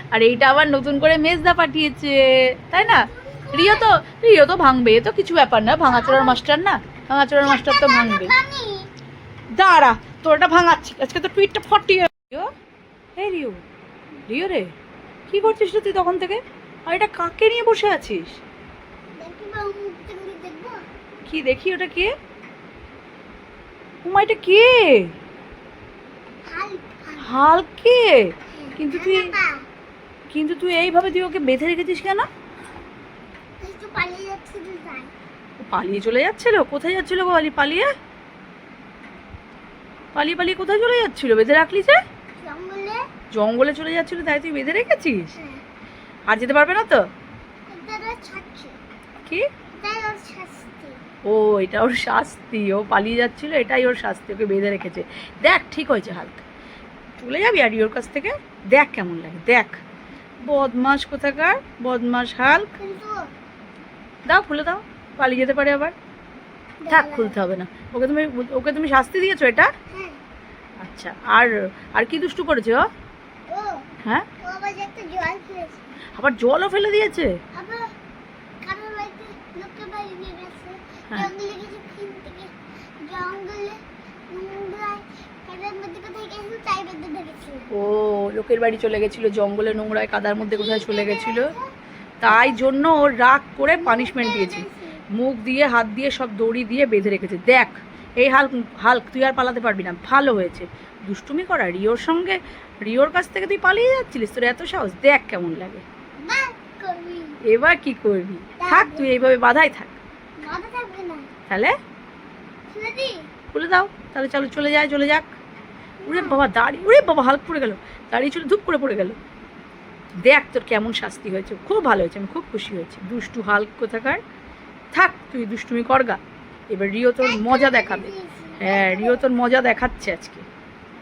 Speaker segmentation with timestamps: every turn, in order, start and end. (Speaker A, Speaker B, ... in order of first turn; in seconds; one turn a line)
Speaker A: 0.1-8.3
Speaker B: 2.7-3.9
Speaker B: 5.8-6.4
Speaker B: 7.4-8.9
Speaker A: 9.5-12.5
Speaker A: 13.2-13.6
Speaker A: 14.3-14.7
Speaker A: 15.3-18.4
Speaker B: 19.2-20.8
Speaker A: 21.2-22.1
Speaker A: 24.0-25.1
Speaker B: 26.4-27.3
Speaker A: 27.2-29.3
Speaker B: 28.5-29.7
Speaker A: 30.3-32.3
Speaker B: 33.6-35.1
Speaker A: 35.6-37.9
Speaker A: 40.1-42.0
Speaker B: 42.4-43.0
Speaker A: 43.3-45.4
Speaker B: 45.4-45.6
Speaker A: 46.3-47.1
Speaker B: 47.7-48.8
Speaker B: 49.8-51.0
Speaker A: 51.2-56.4
Speaker A: 57.2-59.8
Speaker A: 60.4-62.7
Speaker B: 62.8-63.3
Speaker A: 64.2-65.9
Speaker B: 66.8-67.4
Speaker A: 66.9-69.7
Speaker B: 69.9-70.2
Speaker A: 70.8-72.9
Speaker B: 73.5-73.9
Speaker B: 74.4-75.8
Speaker A: 76.1-77.4
Speaker B: 77.5-77.9
Speaker B: 78.6-87.7
Speaker A: 87.7-91.5
Speaker B: 90.4-91.7
Speaker A: 92.2-105.8
Speaker B: 92.3-92.7
Speaker B: 93.8-95.0
Speaker B: 106.2-107.4
Speaker A: 107.4-110.0
Speaker B: 108.6-109.1
Speaker B: 110.4-111.3
Speaker A: 111.5-111.7
Speaker B: 112.7-113.3
Speaker A: 113.5-115.3
Speaker B: 116.0-116.4
Speaker A: 116.1-119.2
Speaker A: 120.2-124.2
Speaker A: 124.9-126.2
Speaker A: 126.7-130.4
Speaker B: 127.2-129.2